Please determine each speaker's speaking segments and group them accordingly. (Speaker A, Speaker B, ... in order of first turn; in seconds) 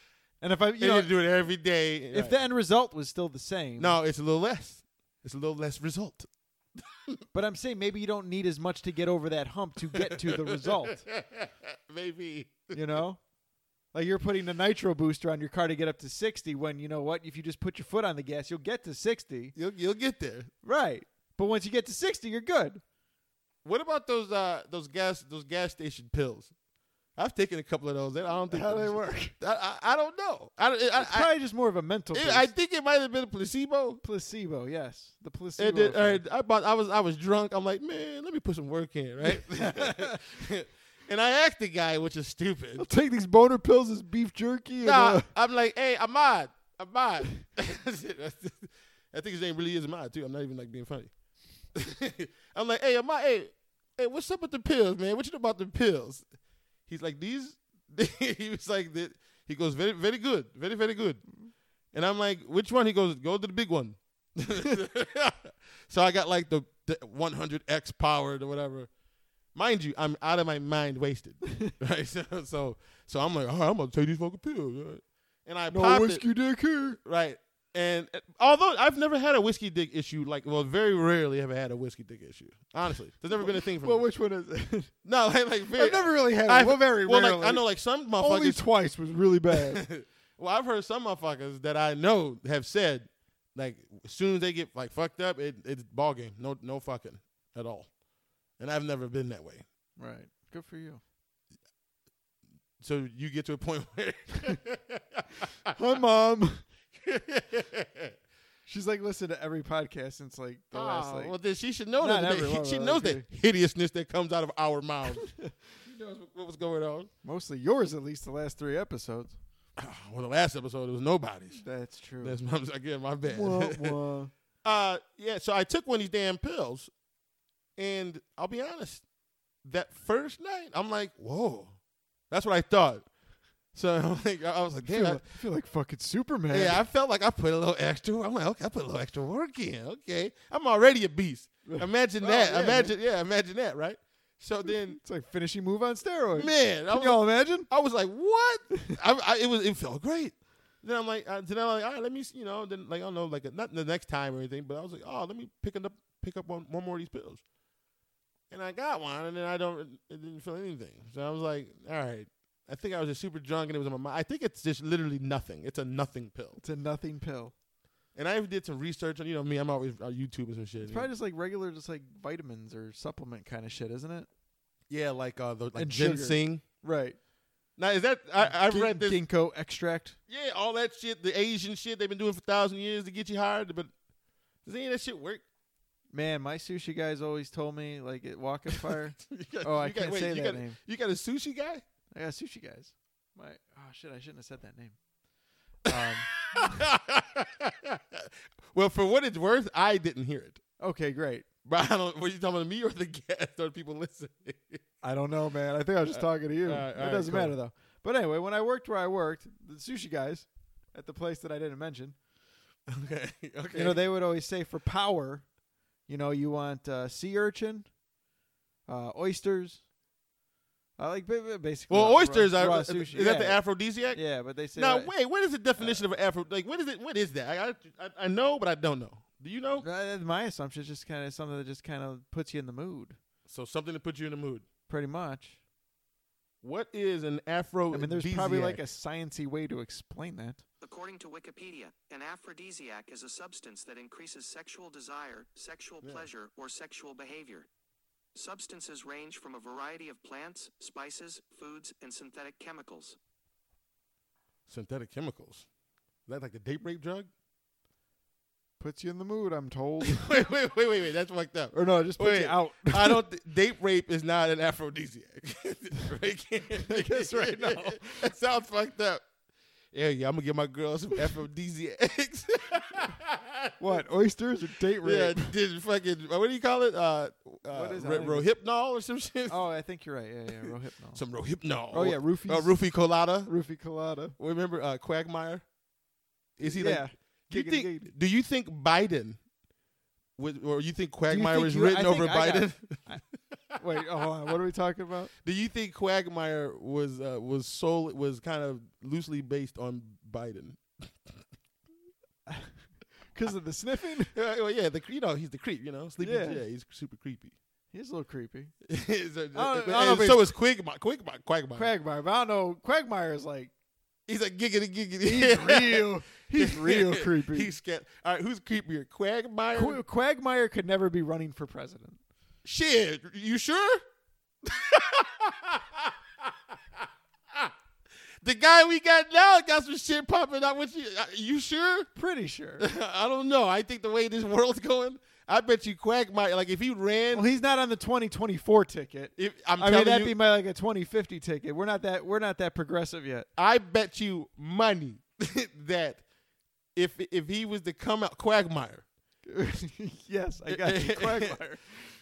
Speaker A: 0.4-1.1, 2.1-4.0, 7.3-11.1, 12.7-13.2, 13.9-19.5, 20.6-22.8, 28.4-29.3, 30.9-32.5, 34.0-36.2, 39.2-40.2, 42.8-45.3, 75.7-77.0, 83.4-84.9, 85.7-87.7, 88.2-89.9, 100.0-101.0, 105.7-106.6, 108.7-111.3, 112.0-113.2, 115.2-115.5, 117.2-119.4, 121.5-122.4, 123.2-124.3, 134.8-136.8, 141.6-142.9, 144.6-147.7, 148.7-149.0, 166.6-167.5, 170.8-174.3, 175.7-177.2, 178.4-180.2, 186.1-190.8, 192.1-195.0, 195.8-196.9, 200.8-201.4, 205.0-212.2, 213.7-215.5, 216.1-217.9, 218.8-219.8, 221.0-225.1, 225.8-226.0, 229.8-233.2, 234.9-235.6, 237.9-240.6, 258.8-260.4, 261.7-263.2, 266.8-268.3, 273.8-275.5, 277.7-278.5, 279.5-281.2, 281.9-282.8, 283.4-284.4, 286.6-288.1, 291.3-293.2, 293.8-295.3, 302.5-304.3, 306.2-306.6, 307.9-308.7, 309.5-310.5, 311.7-313.7, 315.2-317.7, 319.7-322.2, 332.1-332.9, 337.3-343.5, 349.4-351.9
Speaker B: 0.8-2.4, 3.8-6.3, 9.9-12.8, 19.5-20.5, 23.6-26.5, 27.1-31.3, 32.1-34.0, 35.6-42.9, 44.8-51.1, 51.7-56.2, 56.9-61.2, 61.9-68.9, 69.5-76.3, 77.0-84.0, 85.0-88.6, 89.5-97.9, 98.6-99.6, 102.8-105.5, 106.9-108.2, 110.7-115.3, 115.8-117.1, 119.8-121.6, 122.2-124.0, 124.6-126.9, 127.8-129.0, 129.6-131.8, 132.3-133.1, 133.7-135.4, 136.5-145.0, 146.3-157.4, 158.5-166.6, 168.1-171.1, 174.9-176.6, 177.8-179.2, 180.3-183.9, 184.6-185.4, 189.2-191.8, 195.9-200.6, 201.6-204.8, 206.1-207.6, 212.9-214.0, 221.9-224.2, 224.7-229.8, 233.5-234.6, 236.6-238.8, 254.7-255.7, 256.3-257.3, 260.0-269.2, 269.9-273.7, 275.0-279.6, 281.1-283.5, 284.4-285.6, 286.6-289.4, 290.4-293.2, 295.4-301.3, 304.3-307.5, 308.9-311.9, 314.3-320.0, 322.6-324.0, 324.6-326.5, 328.4-332.1, 332.8-337.5, 339.4-340.3, 343.6-346.2, 346.9-349.0, 350.7-351.6
Speaker C: 240.8-247.7, 248.3-253.2